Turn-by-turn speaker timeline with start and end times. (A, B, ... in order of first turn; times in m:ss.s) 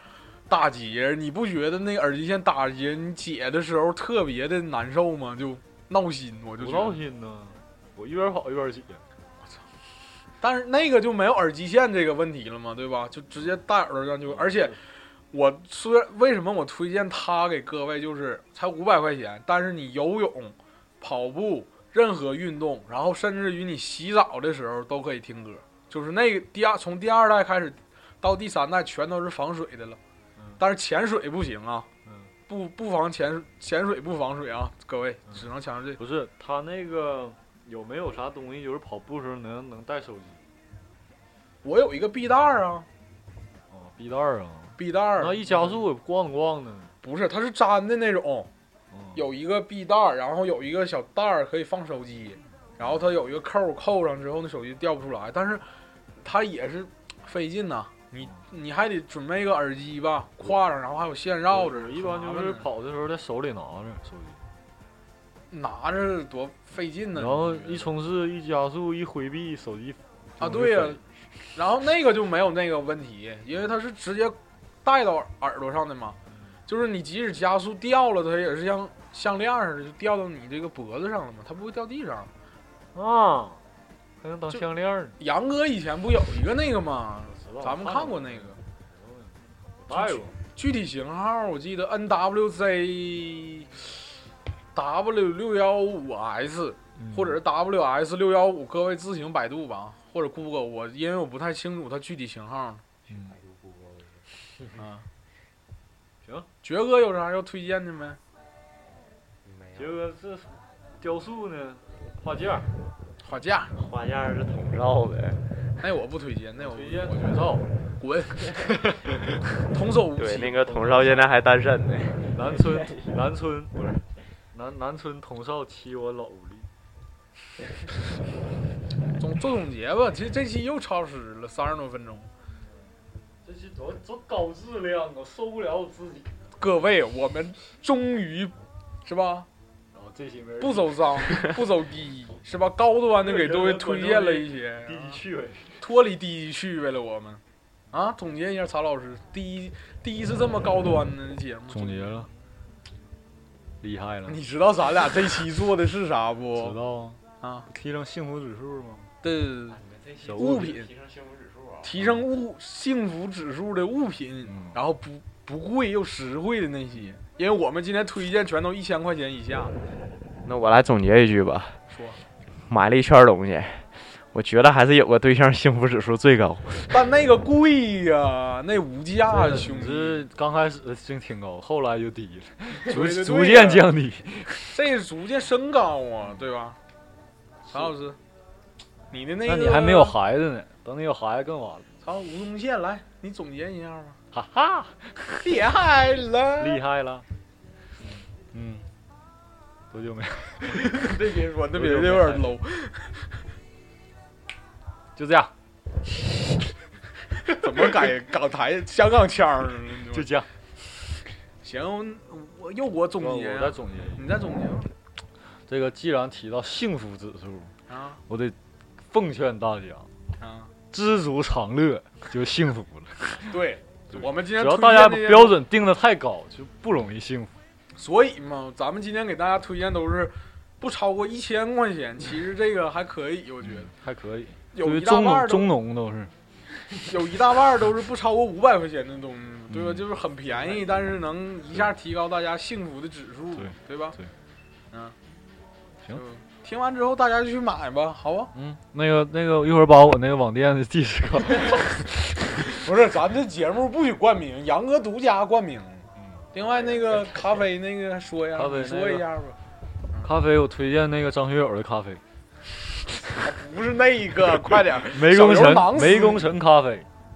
0:00.5-0:07.0 A
0:06.6-0:09.0 B
0:10.4-0:14.8 A
0:14.2-0:14.8 B
0:15.3-0:30.0 A
0:30.6-0:31.9 A
0:32.0-0:32.3 B
0:32.5-0:36.0 A
0:36.0-0:40.4 B
0:41.6-0:42.9 A
0:43.7-0:46.9 B
0:44.8-0:45.8 A
0:47.0-0:48.5 A
0:48.9-0:49.2 B
0:49.1-0:55.7 A
0:56.2-1:02.7 A
1:01.5-1:04.4 B
1:05.5-1:07.9 A
1:07.2-1:11.0 B
1:10.4-1:11.0 A
1:11.6-1:16.2 A
1:16.7-1:22.3 A
1:22.9-1:23.6 B
1:24.2-1:25.2 B
1:25.2-1:28.6 A
1:27.3-1:30.4 B
1:29.9-1:34.0 A
1:34.7-1:42.8 A
1:37.0-1:37.4 B
1:43.1-1:44.3 C
1:43.1-1:43.4 B
1:44.8-1:45.1 A
1:46.2-1:46.5 B
1:46.6-1:48.2 A
1:49.4-1:50.0 C
1:49.8-1:52.7 B
1:53.2-1:53.7 A
1:53.7-1:55.6 C
1:55.8-1:58.7 A
1:56.6-1:57.7 B
1:58.7-1:59.2 B
1:59.6-2:00.8 A
2:00.2-2:03.1 C
2:00.6-2:01.3 B
2:02.3-2:03.9 B
2:04.5-2:06.7 B
2:09.2-2:12.3 A
2:13.4-2:16.3 B
2:16.6-2:19.5 A
2:19.9-2:21.6 B
2:20.6-2:25.2 A
2:23.2-2:25.8 B
2:25.8-2:32.3 A
2:31.7-2:32.3 B
2:33.8-2:34.4 B
2:34.3-2:36.8 A
2:36.6-2:39.1 B
2:37.4-2:37.7 A
2:39.2-2:39.8 A
2:39.7-2:41.9 C
2:40.2-2:40.8 B
2:40.3-2:40.9 A
2:41.8-2:49.7 A
2:44.5-2:44.8 B
2:50.4-2:51.8 C
2:51.9-2:52.2 A
2:52.7-2:56.9 C
2:56.9-3:00.2 A
2:59.3-3:04.8 B
3:02.9-3:03.9 A
3:04.7-3:06.8 A
3:07.7-3:08.2 A
3:09.1-3:10.2 A
3:09.4-3:11.9 B
3:12.0-3:14.2 A
3:14.3-3:15.5 B
3:15.4-3:16.8 A
3:16.6-3:17.3 B
3:18.3-3:18.9 B
3:19.9-3:21.1 B
3:20.7-3:23.3 A
3:21.7-3:22.6 B
3:25.2-3:25.5 B
3:27.5-3:30.3 A
3:30.1-3:30.5 B
3:31.6-3:34.9 A
3:33.2-3:34.3 B
3:35.7-3:37.7 B
3:37.9-3:38.2 A
3:38.3-3:38.6 B
3:39.1-3:40.1 B
3:40.4-3:40.7 A
3:40.9-3:43.5 B
3:43.5-3:45.6 A
3:44.1-3:47.6 B
3:48.0-3:53.9 A
3:53.6-3:56.3 B
3:54.7-3:55.7 A
3:57.0-4:04.2 A
3:59.7-4:00.0 B
4:03.6-4:04.3 B
4:04.9-4:05.2 A
4:06.1-4:08.5 A
4:08.5-4:12.4 B
4:12.7-4:19.6 A
4:16.2-4:16.4 B
4:16.6-4:17.7 C
4:18.6-4:19.3 B
4:20.2-4:22.2 B
4:23.3-4:26.5 A
4:25.1-4:27.1 B